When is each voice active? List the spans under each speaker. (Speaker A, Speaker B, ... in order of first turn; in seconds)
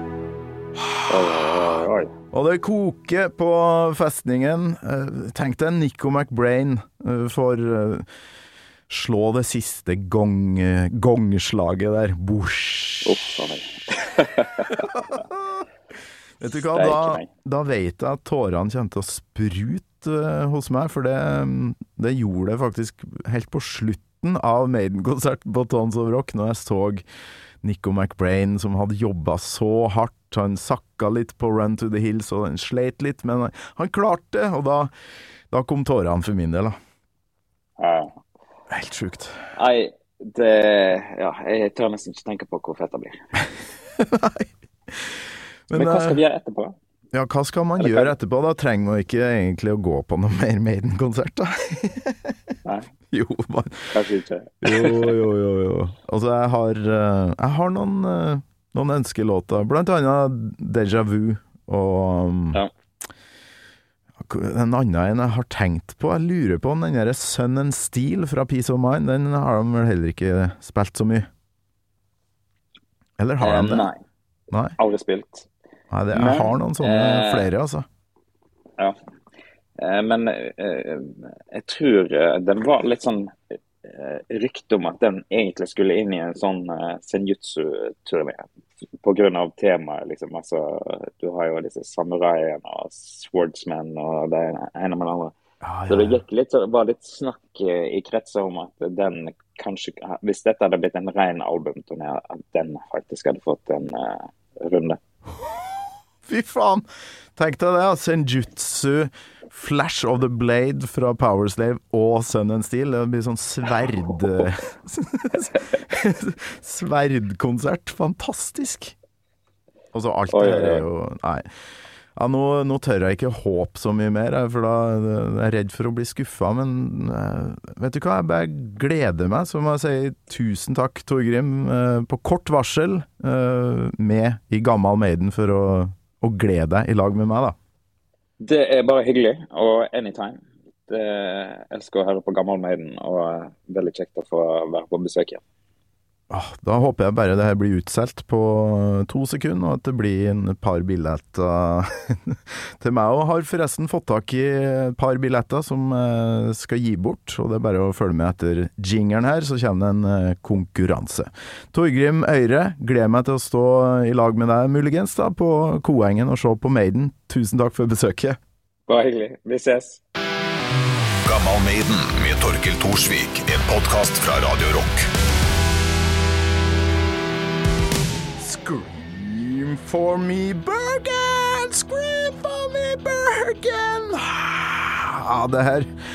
Speaker A: 1.1-2.1, 13.0-14.9, 16.6-17.3, 37.8-38.2, 39.6-43.2, 45.7-46.8, 47.8-48.1, 53.9-55.2, 73.4-74.0, 74.8-75.5, 76.1-77.5, 79.8-88.5, 89.0-95.3, 95.9-105.0, 120.3-120.8, 138.4-145.4, 168.9-170.0
Speaker B: 2.3-8.1, 8.9-13.2, 14.7-15.6, 16.4-27.0, 27.6-34.9, 35.5-36.8, 38.7-39.4, 44.0-46.2, 47.1-52.5, 53.1-54.0, 54.6-62.6, 64.2-71.3, 73.2-73.9, 75.9-77.9, 95.6-96.2, 106.2-106.8, 107.4-119.0, 119.9-121.5, 122.2-137.6, 146.3-168.4, 178.4-185.9
Speaker C: 171.2-175.1